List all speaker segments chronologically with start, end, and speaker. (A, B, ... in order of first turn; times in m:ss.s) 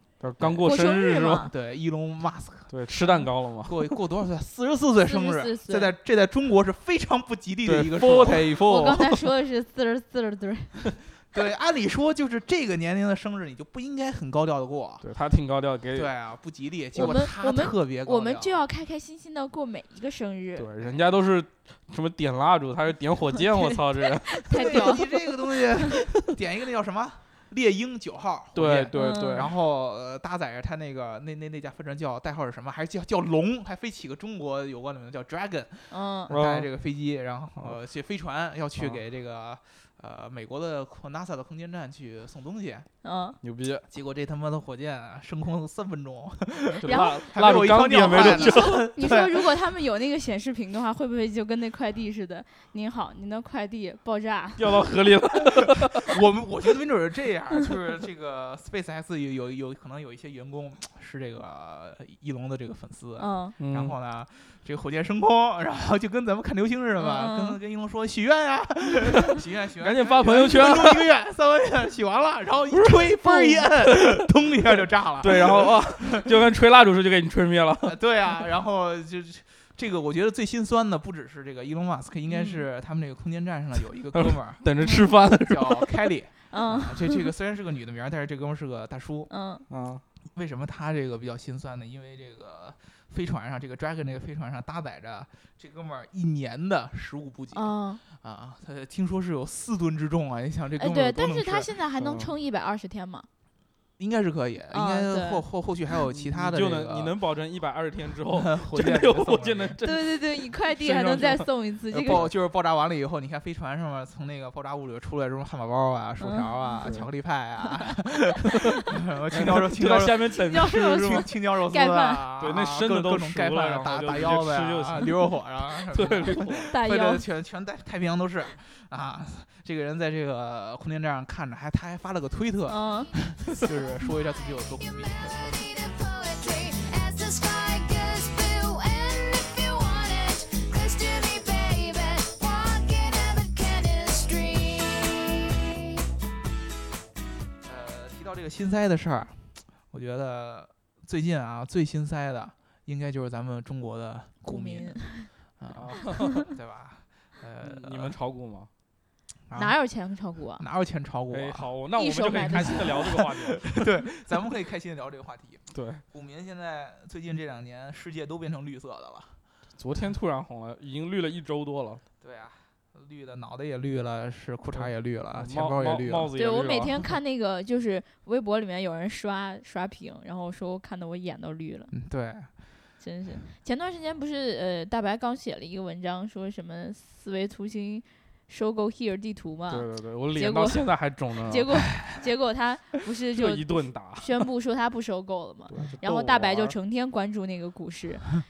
0:00.2-0:01.5 A
0:00.4-0:00.7 B
0:00.6-0:01.5 C
0:01.5-0:02.7 B
0:02.7-0:03.8 A
0:03.6-0:09.0 B
0:05.0-0:05.9 C
0:07.7-0:09.0 A
0:08.3-0:10.8 C
0:11.3-0:15.0 B
0:15.0-0:16.1 A
0:16.0-0:18.6 B
0:17.0-0:20.7 C
0:20.6-0:25.0 A
0:23.4-0:23.7 C
0:24.3-0:25.0 C
0:24.5-0:42.9 B
0:28.5-0:29.5 A
0:28.9-0:29.5 C
0:35.9-0:36.3 C
0:36.3-0:36.7 A
0:43.0-0:43.4 C
0:43.4-0:43.8 A
0:43.9-0:49.5 B
0:46.8-0:47.4 C
0:46.8-0:48.8 A
0:48.0-0:54.8 C
0:54.6-0:56.2 A
0:56.1-1:16.2 B
1:03.2-1:03.6 C
1:03.6-1:04.0 A
1:07.0-1:07.6 C
1:09.8-1:11.0 A
1:15.2-1:17.9 A
1:17.8-1:24.7 B
1:22.3-1:22.6 C
1:24.1-1:25.9 A
1:24.8-1:25.1 C
1:25.4-1:29.3 B
1:26.5-1:27.2 C
1:29.3-1:29.7 C
1:29.7-1:30.0 A
1:30.4-1:41.8 B
1:37.5-1:38.0 C
1:40.8-1:43.3 C
1:42.0-1:42.3 A
1:44.0-1:47.2 B
1:44.7-1:45.5 C
1:46.1-1:52.3 A
1:48.3-1:49.8 B
1:49.8-1:52.3 C
1:52.0-1:58.5 B
1:56.2-1:56.9 C
1:56.8-1:57.1 A
1:59.1-2:00.3 B
1:59.3-2:01.3 A
2:00.3-2:02.3 C
2:00.9-2:15.7 B
2:02.4-2:06.7 A
2:06.3-2:07.2 C
2:12.7-2:13.1 C
2:15.5-2:26.0 D
2:27.6-2:38.2 B
2:34.4-2:35.3 C
2:35.7-2:36.4 A
2:37.6-2:38.7 A
2:39.5-2:39.8 B
2:39.5-2:40.7 C
2:40.6-2:41.7 B
2:41.3-2:43.6 A
2:41.9-2:43.2 C
2:42.9-2:49.4 B
2:45.7-2:46.0 A
2:49.8-2:52.0 A
2:52.2-2:56.3 B
2:54.8-2:57.0 A
2:56.4-3:01.9 C
3:01.9-3:02.5 B
3:03.0-3:18.4 C
3:09.7-3:11.7 A
3:13.3-3:14.5 A
3:15.7-3:16.8 A